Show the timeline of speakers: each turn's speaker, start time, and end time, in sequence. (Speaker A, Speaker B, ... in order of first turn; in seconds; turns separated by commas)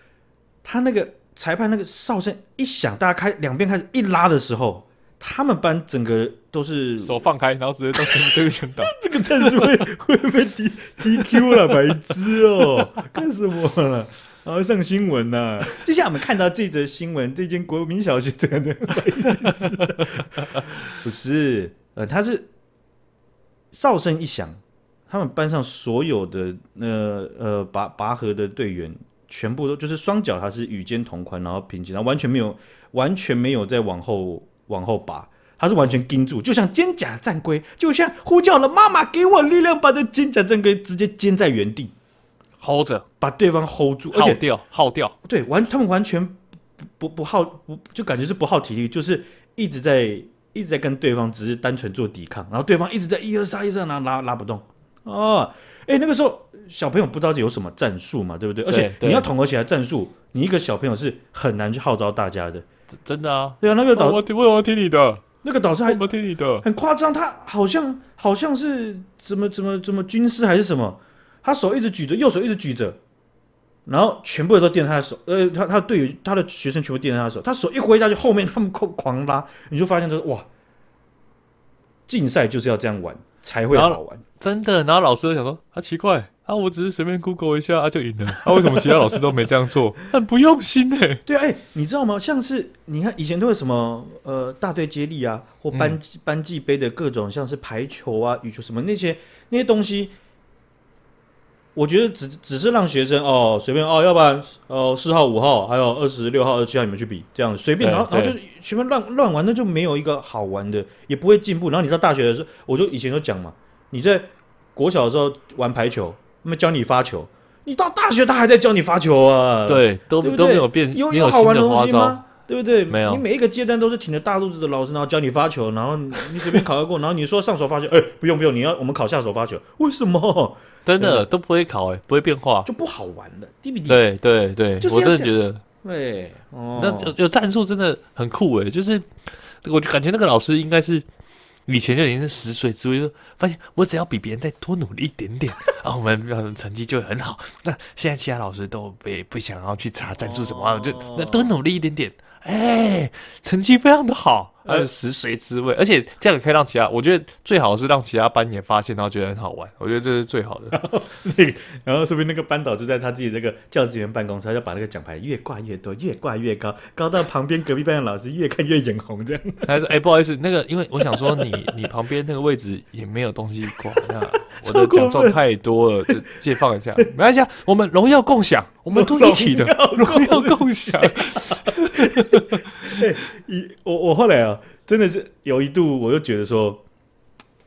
Speaker A: 0.6-7.2, Speaker B: 7.0-9.8, Speaker A: 8.9-22.5, Speaker B: 11.2-11.9, Speaker B: 12.6-13.0, Speaker B: 19.4-20.7, Speaker A: 23.7-41.9, Speaker B: 42.6-43.0, Speaker A: 43.2-44.4, Speaker B: 44.1-45.1, Speaker A: 45.2-46.4, Speaker A: 47.0-62.6, Speaker B: 58.7-59.3, Speaker B: 63.0-65.2, Speaker A: 63.6-64.2, Speaker A: 65.4-66.1, Speaker B: 65.9-66.7, Speaker A: 66.6-73.0, Speaker A: 73.9-80.5, Speaker A: 82.1-84.2, Speaker B: 83.7-91.2, Speaker A: 88.5-89.2, Speaker A: 91.3-100.1, Speaker B: 95.7-96.0, Speaker A: 101.8-131.3, Speaker B: 107.8-108.4, Speaker B: 119.7-122.2, Speaker B: 122.9-123.2, Speaker B: 130.9-132.7, Speaker A: 132.7-134.0, Speaker B: 133.9-135.6, Speaker A: 134.8-137.2, Speaker B: 136.8-139.1, Speaker B: 139.6-141.1, Speaker B: 141.7-160.8, Speaker A: 150.2-151.6, Speaker A: 160.7-169.7, Speaker B: 169.7-182.9, Speaker A: 171.0-171.6, Speaker A: 174.6-175.4, Speaker A: 178.9-186.8